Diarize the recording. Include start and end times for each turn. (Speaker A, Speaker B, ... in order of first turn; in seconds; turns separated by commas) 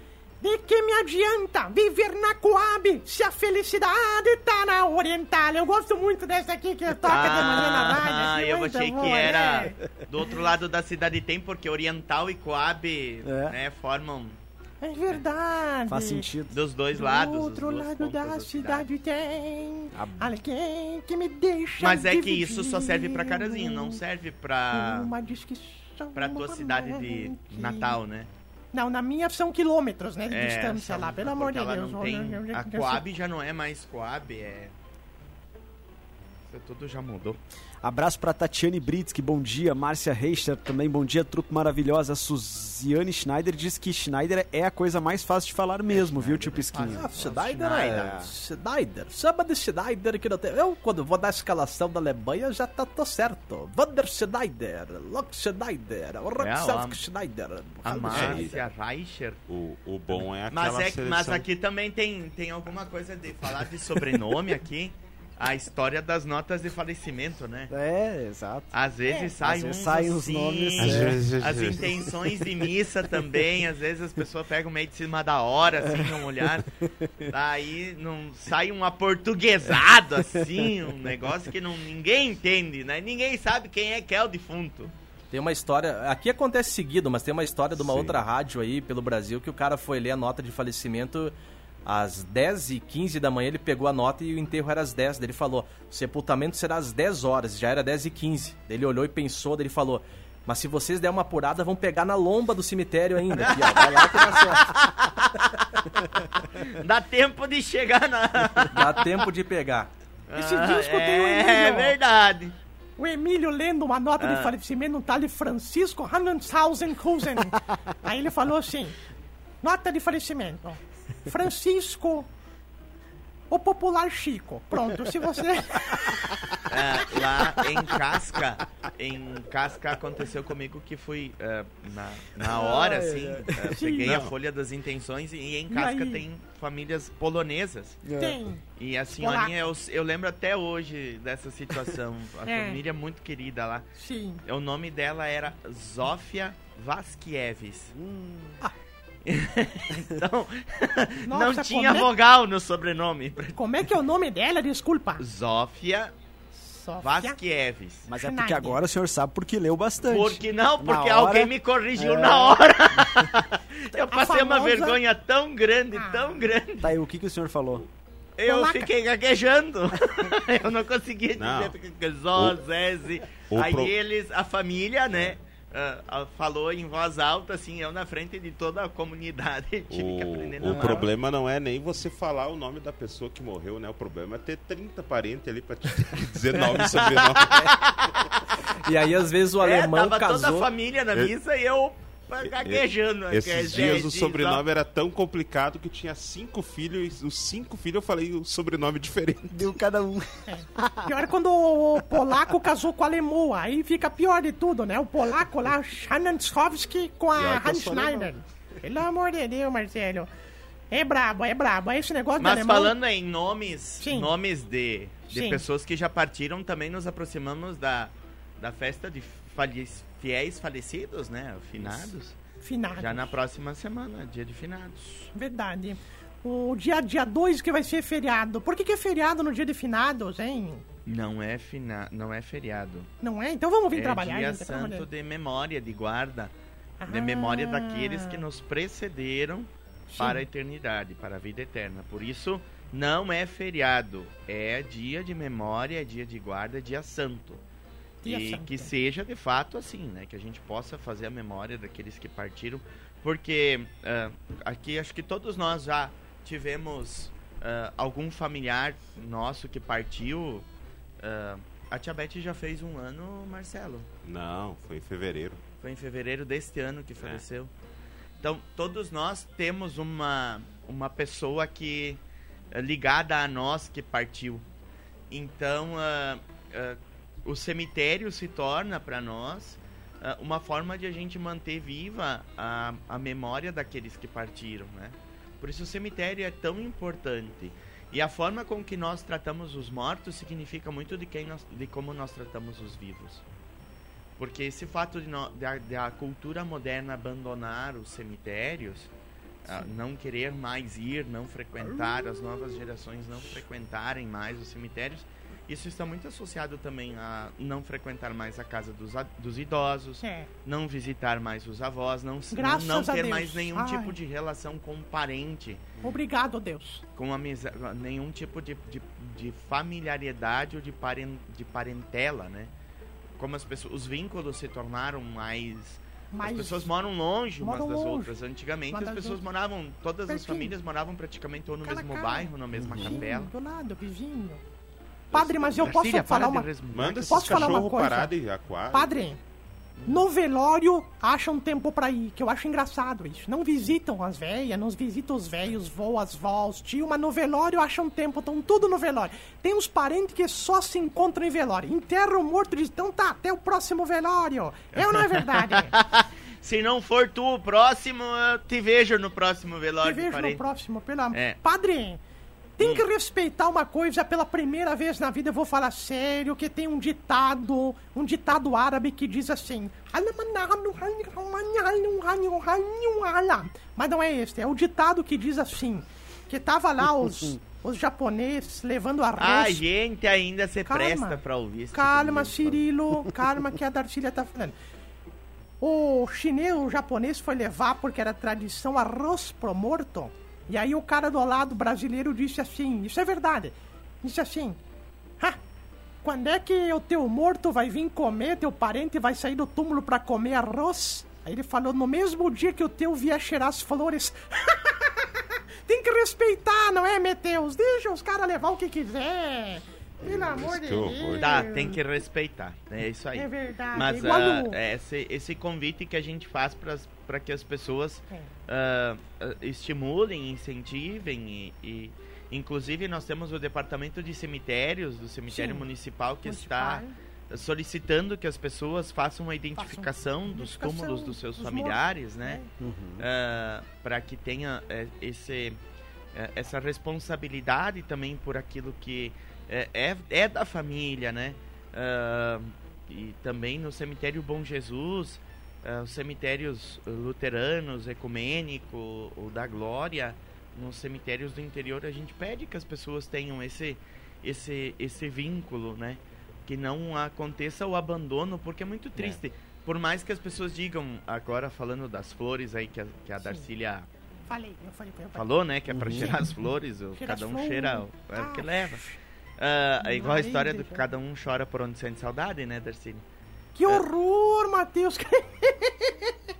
Speaker A: 0.4-9.8, Speaker B: 7.0-14.4, Speaker C: 9.1-9.7, Speaker C: 13.2-13.6, Speaker A: 14.8-16.3, Speaker C: 15.9-16.6, Speaker B: 16.5-18.9, Speaker A: 16.9-24.0, Speaker C: 19.9-20.3, Speaker B: 21.8-25.1, Speaker A: 24.7-28.0, Speaker B: 26.1-28.3, Speaker A: 28.7-33.0, Speaker B: 30.3-34.7, Speaker B: 36.5-37.4, Speaker C: 37.8-48.3, Speaker B: 45.9-48.1, Speaker D: 46.8-58.5, Speaker B: 56.4-57.0, Speaker B: 57.8-59.4, Speaker E: 58.1-58.6, Speaker E: 59.5-61.5, Speaker B: 60.1-67.7, Speaker C: 67.7-68.7, Speaker B: 68.7-76.7, Speaker A: 69.1-69.3, Speaker C: 69.4-71.2, Speaker E: 70.8-72.0, Speaker C: 75.8-77.2, Speaker B: 77.3-84.9, Speaker D: 85.3-104.7, Speaker E: 87.8-88.2, Speaker B: 103.4-105.8, Speaker B: 106.4-109.0, Speaker D: 108.7-109.9, Speaker B: 110.3-112.5, Speaker A: 110.3-112.0, Speaker A: 113.0-119.0, Speaker B: 114.2-114.5, Speaker A: 119.6-122.3, Speaker A: 123.5-126.4, Speaker B: 126.7-138.0, Speaker C: 132.4-133.8, Speaker A: 133.7-134.2, Speaker E: 134.0-134.3, Speaker A: 135.7-136.2, Speaker C: 138.0-138.4, Speaker A: 138.2-138.6, Speaker B: 138.8-143.9, Speaker A: 139.2-139.5, Speaker A: 142.4-142.8, Speaker A: 143.9-144.4, Speaker B: 144.4-147.9, Speaker C: 147.9-148.6, Speaker B: 149.2-153.6, Speaker A: 151.2-152.1, Speaker A: 153.6-155.2, Speaker B: 155.2-156.1, Speaker A: 156.6-157.4, Speaker B: 157.0-158.1, Speaker C: 158.1-163.3, Speaker A: 158.2-158.8, Speaker B: 160.1-166.9, Speaker A: 164.1-165.0, Speaker A: 165.9-166.4, Speaker C: 166.8-167.8, Speaker B: 168.4-181.1, Speaker A: 168.4-168.9, Speaker E: 171.4-171.8, Speaker E: 172.3-172.6, Speaker E: 173.5-173.9, Speaker E: 175.1-175.3, Speaker E: 179.9-187.8, Speaker B: 186.7-188.4, Speaker D: 188.8-190.7, Speaker B: 189.6-194.6, Speaker E: 192.4-199.7, Speaker C: 199.5-201.2, Speaker A: 200.5-210.3, Speaker C: 202.1-202.4, Speaker E: 207.3-208.3, Speaker A: 210.9-213.0, Speaker B: 212.4-222.4, Speaker A: 214.0-214.3, Speaker A: 215.3-215.6, Speaker A: 222.6-223.3, Speaker B: 222.9-225.3, Speaker A: 225.3-230.8, Speaker B: 231.1-233.1, Speaker A: 233.2-235.1, Speaker B: 233.9-236.5, Speaker A: 237.0-238.4, Speaker B: 237.1-247.6, Speaker A: 240.1-240.4, Speaker A: 248.2-248.9, Speaker B: 248.2-260.6, Speaker B: 261.2-264.1, Speaker E: 264.2-265.6, Speaker B: 265.8-267.7, Speaker B: 268.4-272.2, Speaker B: 272.7-274.6, Speaker B: 275.3-293.4, Speaker B: 294.4-299.1, Speaker B: 299.6-315.9, Speaker A: 310.2-310.5, Speaker A: 312.5-314.2, Speaker A: 316.0-317.0, Speaker B: 317.1-322.7, Speaker B: 323.4-333.5, Speaker A: 326.3-326.9, Speaker A: 327.6-328.3, Speaker A: 328.9-329.4, Speaker A: 330.2-330.8, Speaker A: 331.8-334.6, Speaker C: 332.7-333.2, Speaker A: 335.3-336.7, Speaker B: 335.3-337.9, Speaker E: 336.9-339.2, Speaker A: 337.3-338.3, Speaker A: 338.9-339.4, Speaker B: 340.0-340.3, Speaker A: 340.0-355.9, Speaker B: 354.9-360.6, Speaker A: 360.0-362.2, Speaker B: 361.3-361.6, Speaker A: 362.8-379.8, Speaker B: 362.8-363.0, Speaker B: 379.4-382.9, Speaker A: 380.9-381.4, Speaker A: 381.9-384.7, Speaker A: 385.8-394.8, Speaker A: 396.2-412.0, Speaker E: 410.2-411.7, Speaker B: 411.4-432.6, Speaker A: 413.3-414.8, Speaker A: 425.5-425.9, Speaker A: 426.4-427.1, Speaker A: 429.8-432.7, Speaker C: 432.8-433.3, Speaker B: 433.2-435.8, Speaker B: 436.3-464.1, Speaker A: 463.4-463.6, Speaker A: 464.5-465.5, Speaker B: 465.3-469.0, Speaker C: 465.9-466.4, Speaker A: 466.1-466.5, Speaker A: 467.1-469.2, Speaker B: 469.6-473.2, Speaker A: 470.0-471.1, Speaker A: 473.7-476.3